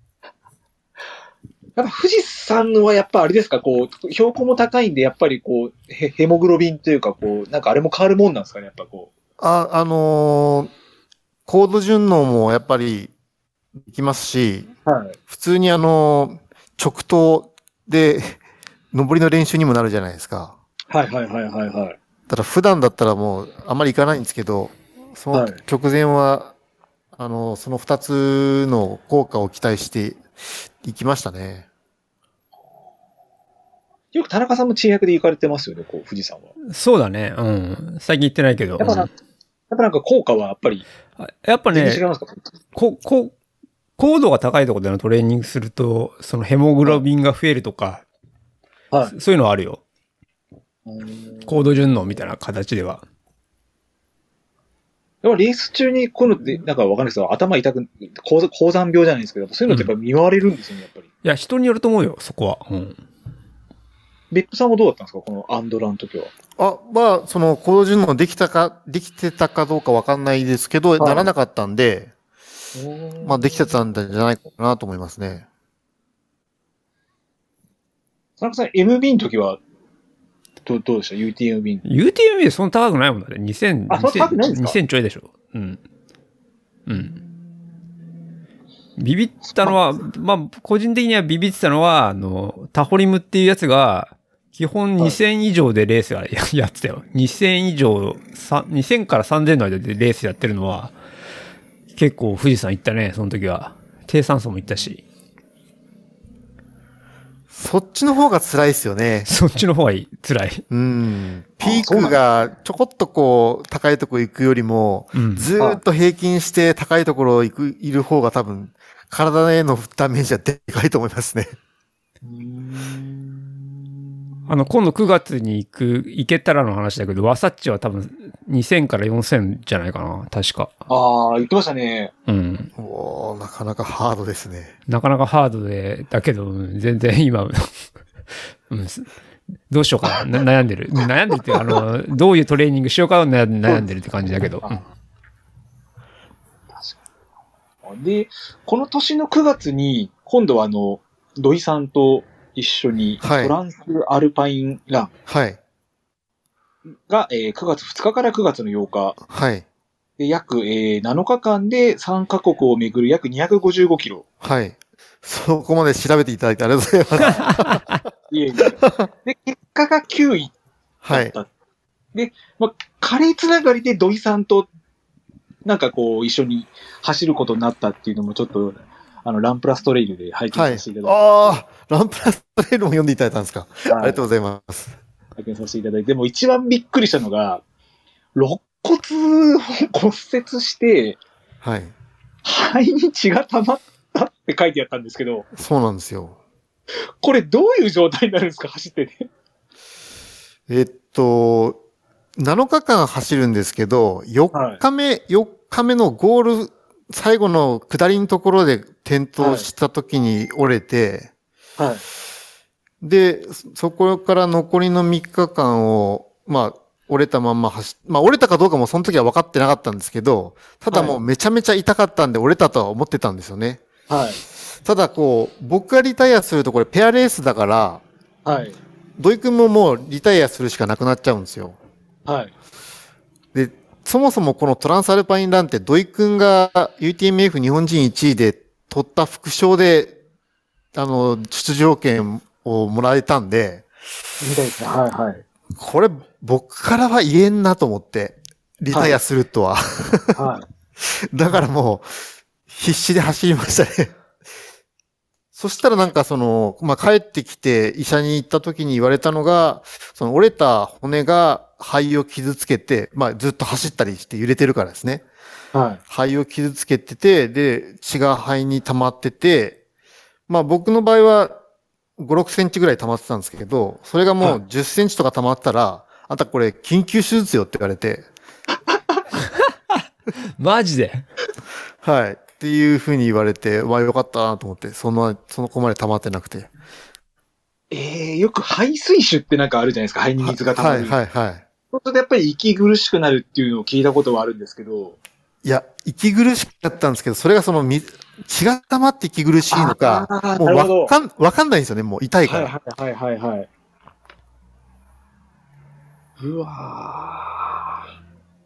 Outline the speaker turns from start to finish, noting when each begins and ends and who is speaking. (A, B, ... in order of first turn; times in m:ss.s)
0:01.8-0:09.1 A
0:09.4-0:10.7 B
0:11.4-0:13.1 B
0:13.8-0:14.7 B
0:14.8-0:15.2 A
0:15.3-0:18.4 B
0:18.9-0:20.6 B
0:20.9-0:22.0 A
0:22.3-0:26.5 B
0:25.3-0:25.6 A
0:27.1-0:30.2 B
0:30.8-0:31.6 B
0:34.1-0:36.5 A
0:36.7-0:39.1 C
0:38.8-0:39.1 A
0:39.7-0:40.8 A
0:41.2-0:42.0 C
0:41.7-0:42.5 A
0:42.7-0:43.3 C
0:44.0-0:48.0 C
0:49.1-0:49.8 C
0:50.8-0:51.6 A
0:51.4-0:53.0 C
0:55.2-1:01.1 A
1:01.2-1:03.0 C
1:04.3-1:06.3 A
1:06.6-1:12.1 B
1:11.0-1:11.3 A
1:12.7-1:13.8 A
1:13.2-1:15.4 B
1:18.4-1:19.6 A
1:20.6-1:21.8 A
1:21.8-1:25.8 C
1:23.9-1:24.8 A
1:26.8-1:27.2 C
1:29.0-1:40.9 C
1:42.0-1:45.0 C
1:47.5-1:49.3 B
1:49.2-1:50.6 C
1:50.7-2:01.5 B
1:51.6-1:52.2 A
1:55.1-1:55.5 C
2:02.2-2:04.5 A
2:04.5-2:10.8 C
2:10.9-2:12.1 A
2:12.3-2:12.7 C
2:12.8-2:14.7 B
2:14.9-2:17.7 C
2:18.7-2:19.1 C
2:19.7-2:24.8 C
2:21.5-2:21.8 A
2:24.6-2:24.9 A
2:27.8-2:35.1 A
2:33.2-2:33.5 B
2:35.3-2:35.6 B
2:37.1-2:39.2 A
2:39.3-2:39.6 B
2:40.2-2:44.2 A
2:44.4-2:47.8 B
2:48.3-2:50.5 A
2:48.8-2:49.1 B
2:51.0-2:51.3 B
2:51.1-2:51.5 A
2:52.1-2:54.7 A
2:55.6-3:01.5 A
3:00.5-3:04.9 B
3:03.9-3:04.2 A
3:05.4-3:07.6 A
3:08.3-3:11.2 A
3:11.6-3:11.9 B
3:12.4-3:15.5 A
3:15.5-3:16.4 B
3:17.2-3:19.3 A
3:20.7-3:21.8 B
3:22.4-3:31.3 B
3:24.5-3:24.8 A
3:29.4-3:29.7 A
3:31.8-3:32.0 A
3:33.0-3:43.8 B
3:40.9-3:41.2 A
3:44.1-3:44.4 A
3:44.8-3:48.0 B
3:48.4-3:48.8 A
3:49.2-3:51.8 B
3:52.2-3:52.5 A
3:53.5-4:00.2 B
4:00.9-4:03.9 B
4:04.4-4:05.4 A
4:05.7-4:10.4 B
4:08.9-4:09.2 A
4:10.3-4:10.6 A
4:11.0-4:12.1 B
4:12.7-4:14.1 B
4:15.5-4:25.2 B
4:25.7-4:26.0 A
4:26.1-4:29.8 B
4:30.5-4:31.6 B
4:32.2-4:38.3 B
4:40.6-4:41.2 C
4:42.0-4:46.7 B
4:47.9-4:51.2 A
4:50.4-4:51.6 B
4:51.9-4:55.2 A
4:55.6-5:02.7 B
4:59.7-5:01.1 A
5:02.4-5:03.7 A
5:06.4-5:08.0 A